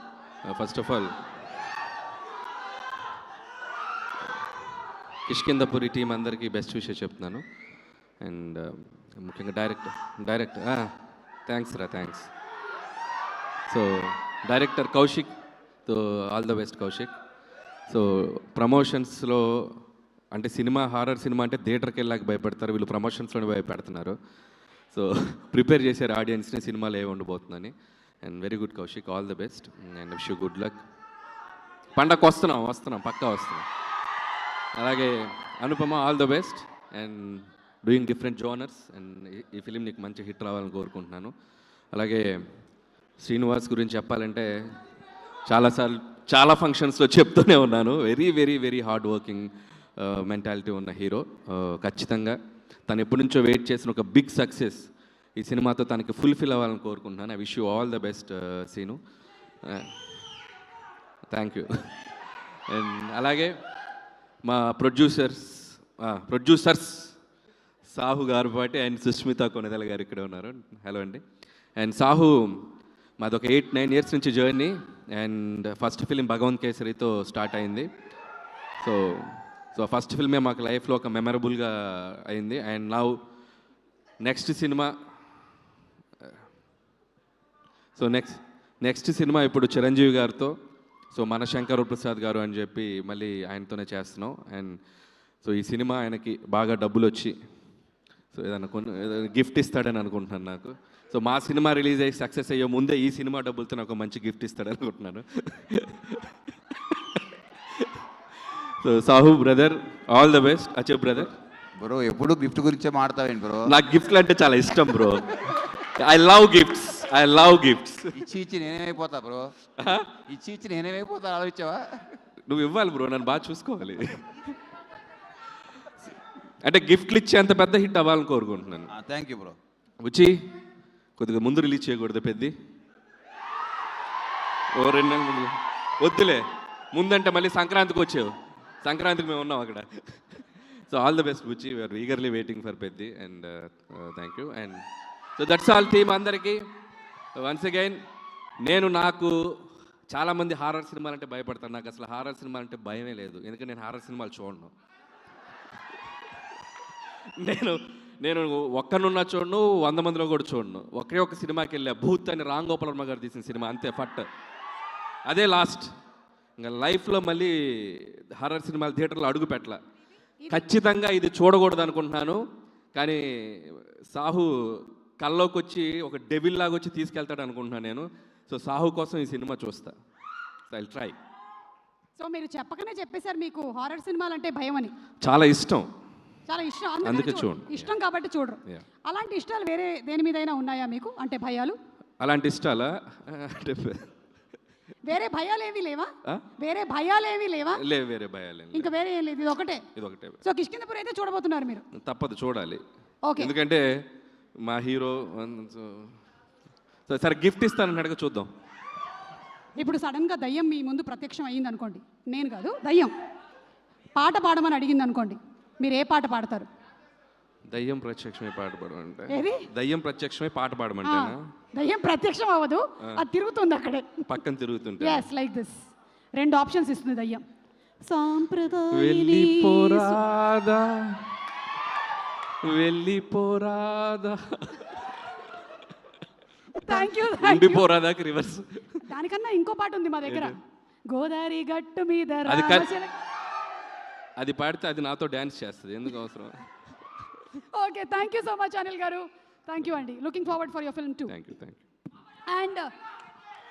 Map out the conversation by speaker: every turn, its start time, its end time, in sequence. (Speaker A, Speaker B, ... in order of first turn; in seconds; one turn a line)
Speaker A: 0.5-1.1
Speaker A: 5.3-7.4
Speaker A: 8.2-10.9
Speaker A: 11.5-12.3
Speaker A: 13.7-15.3
Speaker A: 15.8-17.1
Speaker A: 17.9-19.8
Speaker A: 20.3-24.1
Speaker A: 24.9-30.8
Speaker A: 31.9-33.6
Speaker A: 34.8-41.3
Speaker A: 41.9-42.3
Speaker A: 43.2-44.5
Speaker A: 45.5-59.0
Speaker A: 59.6-59.9
Speaker A: 61.3-61.7
Speaker A: 62.7-63.5
Speaker A: 64.4-67.1
Speaker A: 67.9-71.2
Speaker A: 71.8-77.9
Speaker A: 78.8-83.2
Speaker A: 84.2-84.9
Speaker A: 88.0-90.5
Speaker A: 91.1-94.8
Speaker A: 95.4-97.3
Speaker A: 98.3-106.3
Speaker A: 108.8-111.3
Speaker B: 111.8-113.7
Speaker A: 113.6-118.3
Speaker B: 118.1-119.5
Speaker A: 119.8-120.1
Speaker B: 120.2-122.0
Speaker A: 122.5-124.4
Speaker A: 126.6-128.9
Speaker B: 128.9-129.6
Speaker A: 130.0-130.3
Speaker A: 131.2-132.5
Speaker A: 134.7-138.3
Speaker A: 138.8-144.8
Speaker A: 145.4-146.6
Speaker A: 147.4-148.0
Speaker A: 148.6-154.7
Speaker A: 157.4-164.3
Speaker A: 165.2-165.9
Speaker A: 166.6-169.8
Speaker C: 170.4-170.7
Speaker A: 170.5-172.4
Speaker A: 172.9-179.9
Speaker A: 180.7-181.2
Speaker C: 182.2-184.9
Speaker A: 185.2-185.9
Speaker C: 186.5-191.8
Speaker A: 187.0-187.9
Speaker A: 192.2-194.1
Speaker C: 195.1-197.8
Speaker A: 197.8-198.9
Speaker C: 198.7-199.8
Speaker A: 199.9-200.4
Speaker C: 200.4-201.8
Speaker A: 202.0-202.8
Speaker C: 203.2-203.5
Speaker A: 203.4-204.0
Speaker A: 204.6-206.1
Speaker A: 207.1-208.5
Speaker C: 209.8-213.1
Speaker C: 214.1-216.7
Speaker A: 217.7-221.4
Speaker C: 219.3-219.7
Speaker C: 221.0-224.2
Speaker A: 224.3-225.3
Speaker C: 225.0-225.8
Speaker C: 226.4-227.4
Speaker C: 228.1-230.2
Speaker A: 228.9-231.2
Speaker A: 232.6-235.0
Speaker C: 236.8-237.8
Speaker A: 236.9-239.0
Speaker C: 239.0-240.6
Speaker A: 240.3-240.5
Speaker C: 241.1-243.1
Speaker A: 242.4-242.9
Speaker A: 244.4-246.6
Speaker C: 247.6-251.3
Speaker A: 251.3-251.8
Speaker C: 252.5-252.9